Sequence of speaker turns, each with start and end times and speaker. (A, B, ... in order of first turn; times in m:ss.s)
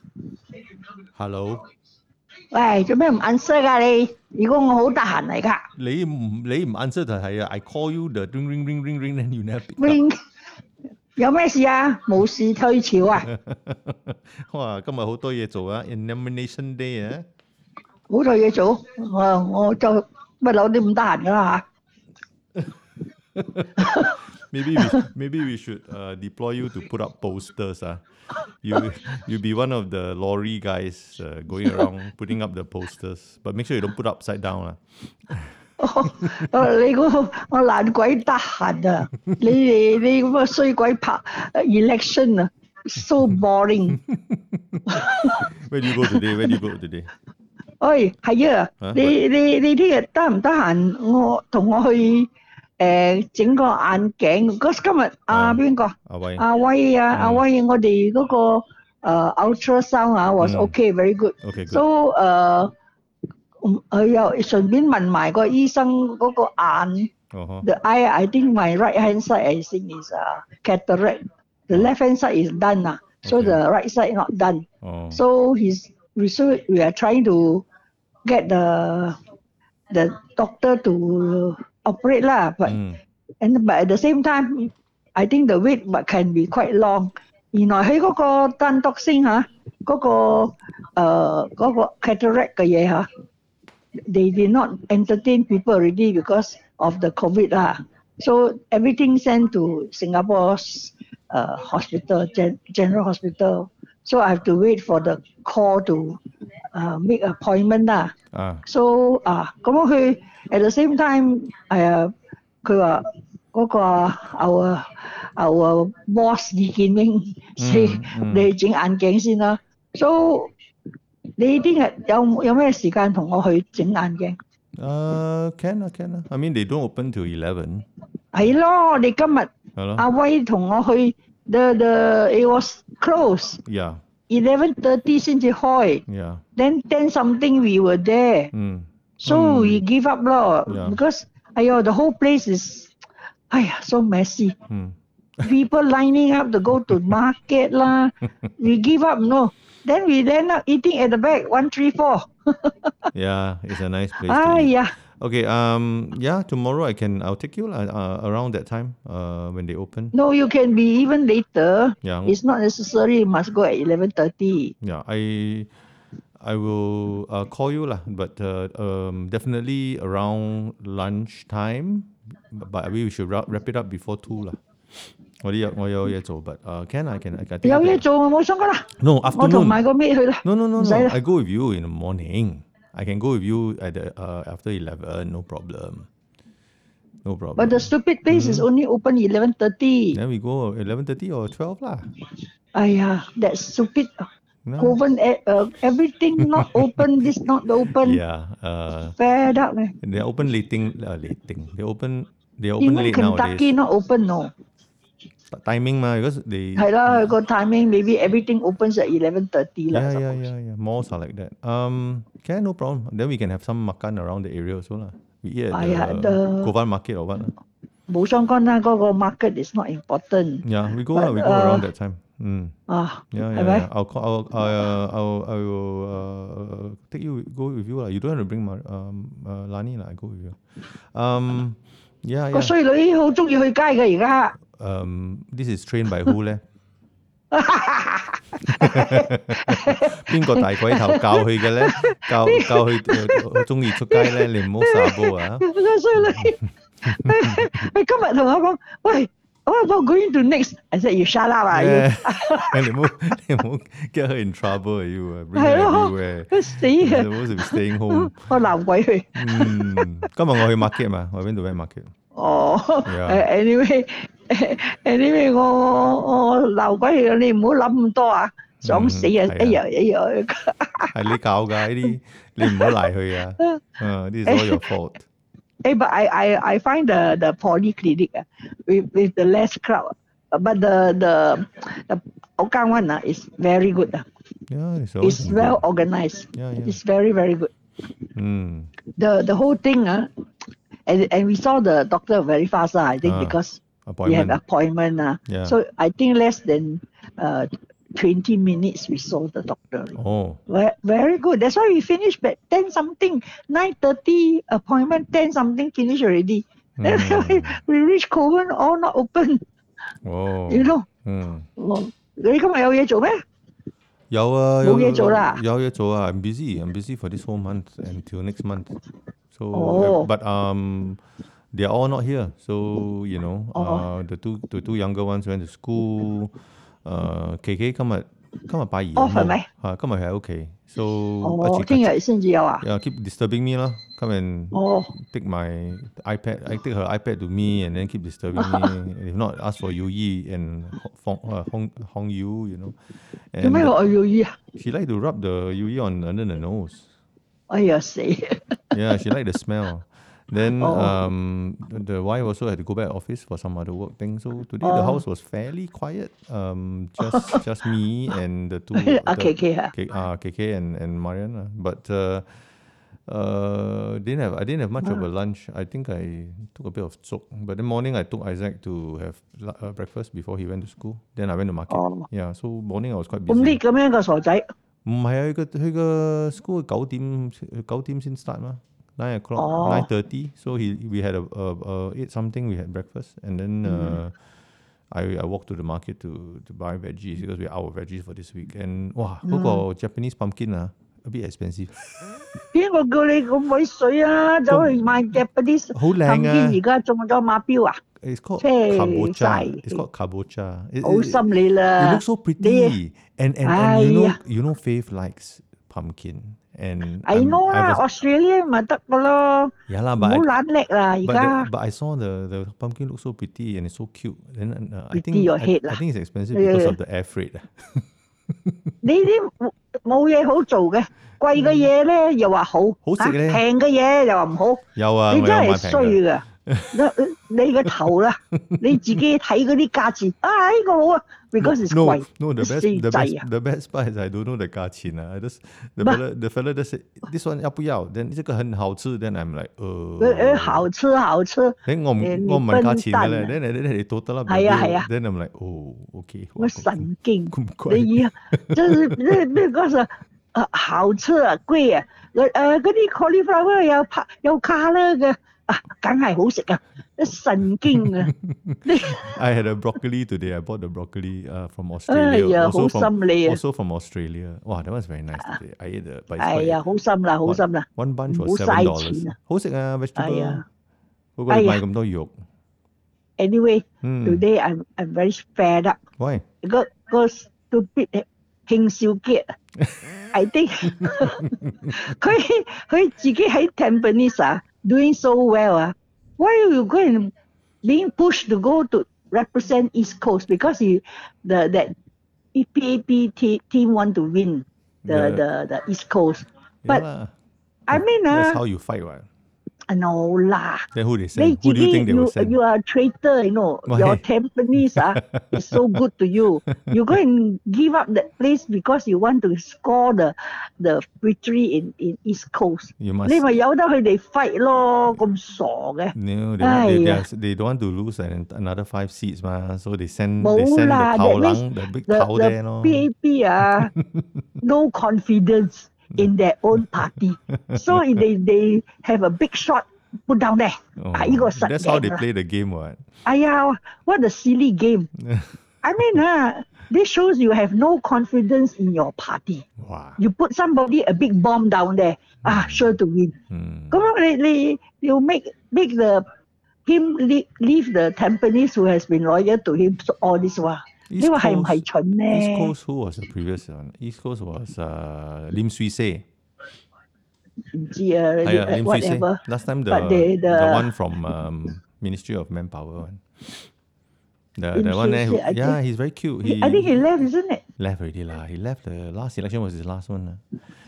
0:01.1-0:01.6 A
0:02.5-0:05.6 B
0:05.8-0:10.0 A
0:09.8-0:10.2 B
0:11.2-0:13.3 B
0:13.2-0:17.2 A
0:18.1-0:21.6 B
0:23.4-0:28.0 A
0:23.8-0:24.2 B
0:28.6-0:35.5 A
0:35.8-0:44.0 B
0:36.1-0:36.4 A
0:44.0-0:44.8 A
0:44.9-0:45.4 B
0:45.3-0:47.1 A
0:46.1-0:46.5 B
0:47.8-1:02.7 B
0:48.8-0:49.2 A
0:55.3-0:56.4 A
0:57.1-0:57.4 A
1:00.4-1:00.7 A
1:01.4-1:01.8 A
1:03.6-1:07.1 B
1:07.3-1:07.7 A
1:07.6-1:17.6 B
1:13.2-1:13.6 A
1:14.8-1:15.2 A
1:18.2-1:19.2 B
1:19.9-1:22.8 B
1:22.6-1:23.0 A
1:23.4-1:33.1 B
1:34.1-1:46.2 B
1:46.7-1:48.1 B
1:48.3-1:48.6 A
1:48.6-1:52.1 B
1:52.6-1:53.0 B
1:53.5-2:00.5 B
1:57.6-1:58.5 A
2:01.4-2:04.4 B
2:04.8-2:07.8 A
2:08.3-2:13.6 B
2:09.8-2:10.0 A
2:13.6-2:14.0 A
2:14.3-2:16.0 B
2:16.1-2:16.4 A
2:16.6-2:18.5 B
2:18.5-2:19.8 A
2:19.2-2:22.9 B
2:20.7-2:21.0 A
2:23.5-2:24.5 B
2:24.7-2:25.5 A
2:25.4-2:32.9 B
2:33.1-2:40.1 A
2:34.2-2:34.9 B
2:40.1-2:44.7 B
2:42.0-2:42.4 A
2:44.8-2:45.7 A
2:46.4-2:58.0 A
2:57.6-3:01.1 B
2:58.9-2:59.8 A
3:00.4-3:06.1 A
3:07.2-3:08.6 A
3:07.6-3:10.2 B
3:10.1-3:12.1 A
3:12.7-3:18.2 B
3:14.6-3:15.0 A
3:16.6-3:17.0 A
3:17.9-3:19.2 A
3:19.2-3:19.9 B
3:20.0-3:23.8 A
3:22.8-3:24.5 B
3:25.5-3:27.3 A
3:26.8-3:30.4 B
3:29.9-3:37.5 A
3:35.7-3:36.7 B
3:38.1-3:41.8 B
3:40.6-3:42.7 A
3:42.9-3:43.9 B
3:43.3-3:52.7 A
3:52.5-3:54.5 B
3:54.7-3:56.6 A
3:57.5-4:12.8 B
3:58.7-4:05.6 A
4:06.3-4:06.5 A
4:07.0-4:07.6 A
4:11.7-4:18.6 A
4:15.5-4:20.1 B
4:19.3-4:22.1 A
4:22.3-4:31.1 B
4:23.0-4:23.4 A
4:28.8-4:29.8 A
4:31.1-4:35.2 A
4:32.6-4:33.0 B
4:34.4-4:34.9 B
4:35.8-4:44.3 B
4:44.7-4:45.8 A
4:45.2-4:47.7 B
4:46.5-4:47.0 A
4:48.3-4:48.9 A
4:49.1-4:50.3 B
4:51.0-5:00.2 B
4:53.2-4:54.6 A
4:55.5-4:55.8 A
5:00.1-5:00.6 A
5:00.7-5:09.6 B
5:07.0-5:07.8 A
5:10.2-5:11.7 A
5:10.7-5:11.0 B
5:11.8-5:13.4 B
5:14.3-5:19.0 A
5:14.8-5:15.6 B
5:19.5-5:21.2 A
5:19.7-5:20.3 B
5:21.7-5:32.1 A
5:23.7-5:24.0 B
5:29.2-5:29.7 B
5:31.4-5:32.8 B
5:32.8-5:43.9 A
5:34.7-5:35.1 B
5:38.6-5:38.9 B
5:43.6-5:44.6 B
5:44.7-5:47.0 A
5:47.7-5:48.8 B
5:48.9-6:02.6 A
5:50.8-5:51.2 B
5:54.8-5:55.2 B
5:58.9-5:59.9 B
6:03.3-6:13.8 A
6:11.9-6:12.2 B
6:13.5-6:14.7 B
6:15.0-6:24.3 A
6:19.6-6:20.1 B
6:23.9-6:24.2 B
6:25.1-6:32.3 A
6:29.4-6:29.8 B
6:32.7-6:38.0 B
6:34.7-6:35.4 A
6:35.9-6:36.8 A
6:38.2-6:41.4 A
6:38.6-6:40.0 B
6:41.0-6:43.0 B
6:42.0-6:48.0 A
6:43.6-6:44.4 B
6:47.2-6:51.7 B
6:49.9-6:50.4 A
6:51.2-6:58.9 A
6:55.1-6:56.0 B
6:56.5-6:57.0 B
6:59.0-7:13.4 B
7:03.0-7:03.6 A
7:04.9-7:06.9 A
7:08.7-7:09.0 A
7:11.6-7:20.9 A
7:20.2-7:23.5 B
7:21.8-7:29.5 A
7:24.5-7:25.1 B
7:26.6-7:38.3 B
7:37.9-7:46.8 A
7:38.8-7:39.3 B
7:42.1-7:43.6 B
7:46.4-7:49.3 B
7:47.4-7:50.6 A
7:50.2-7:50.6 B
7:51.4-7:52.4 A
7:51.5-7:51.8 B
7:53.4-7:56.0 B
7:54.0-7:54.4 A
7:56.2-7:56.4 A
7:56.6-7:59.6 B
8:00.3-8:07.3 B
8:07.8-8:11.9 B
8:12.5-8:17.0 B
8:15.0-8:15.4 A
8:16.8-8:17.3 A
8:17.9-8:18.6 B
8:17.9-8:19.3 A
8:19.9-8:37.2 B
8:20.9-8:22.6 A
8:23.8-8:24.2 A
8:25.0-8:25.6 A
8:33.0-8:33.4 A
8:36.1-8:43.1 A
8:40.4-8:43.9 B
8:43.6-8:44.4 A
8:44.6-8:52.2 B
8:46.8-8:48.0 A
8:51.0-8:53.1 A
8:53.2-8:55.1 B
8:55.2-8:55.6 A
8:55.8-8:59.6 B
8:59.8-9:00.2 A
9:00.2-9:03.3 B
9:02.4-9:02.9 A
9:03.5-9:04.0 A
9:03.9-9:06.2 B
9:06.8-9:12.7 B
9:11.1-9:16.2 A
9:17.7-9:20.9 B
9:18.4-9:23.6 A
9:24.6-9:27.0 A
9:24.7-9:25.8 B
9:26.4-9:27.6 B
9:27.8-9:30.4 A